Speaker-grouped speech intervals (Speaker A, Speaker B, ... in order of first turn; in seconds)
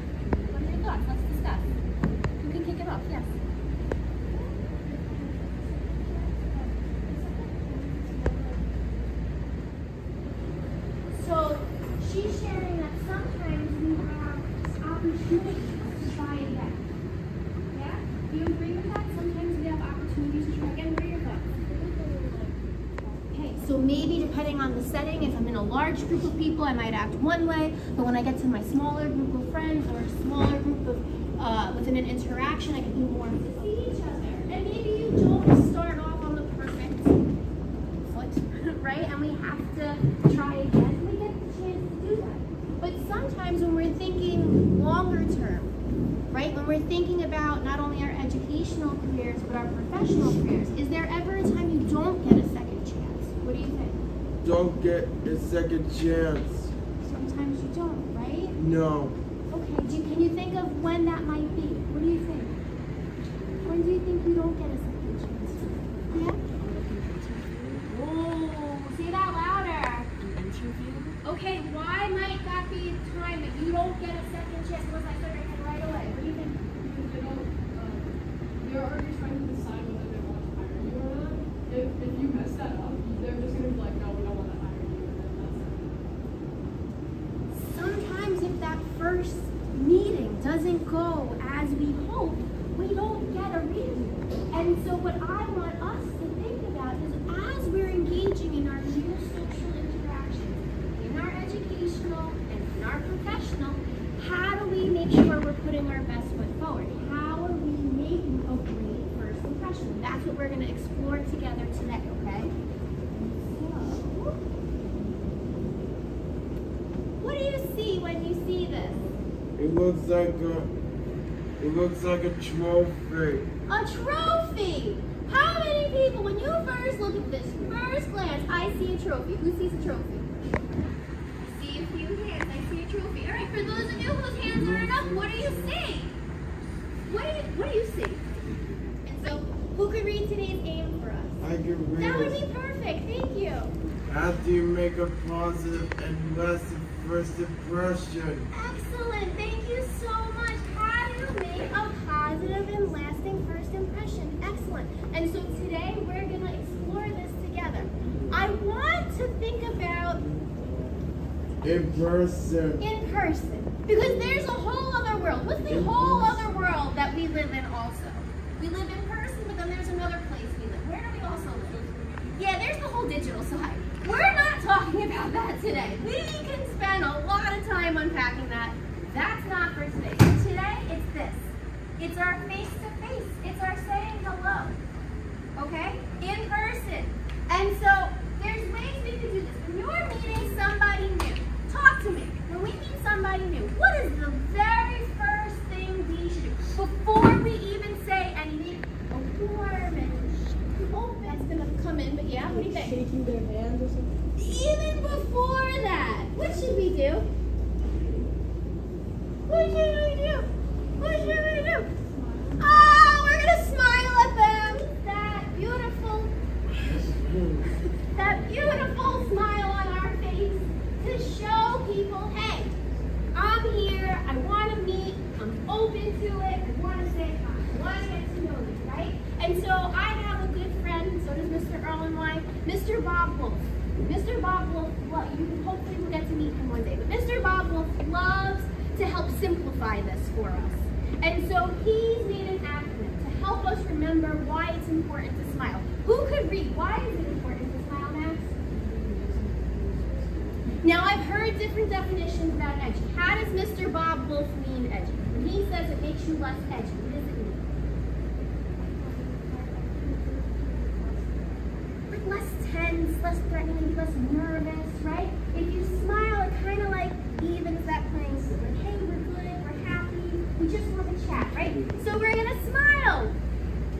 Speaker A: 0.4-1.7, 2.4-3.4, 4.3-8.9, 11.1-16.8, 17.7-21.6, 23.3-37.2, 38.1-45.7, 46.3-54.0, 57.0-58.5, 59.5-62.6, 63.6-76.6, 87.5-112.5, 113.3-114.4, 117.2-119.0, 123.7-130.6, 131.4-136.2, 137.1-138.3, 139.0-141.4, 142.0-143.7, 148.5-160.2, 162.8-184.8, 185.6-203.0, 204.4-207.2, 209.5-211.9, 212.6-216.4, 218.1-222.7, 223.3-248.5, 250.8-257.7, 258.8-261.2, 262.1-273.3
Speaker B: 21.6-23.2, 76.8-78.1, 78.6-86.2, 202.5-204.1, 212.1-212.6, 248.9-250.6
Speaker C: 54.4-56.7, 58.5-59.2, 119.6-120.7, 121.6-123.5, 134.8-135.3, 141.4-142.4, 144.1-148.5, 161.6-162.9, 165.7-166.4, 216.8-217.7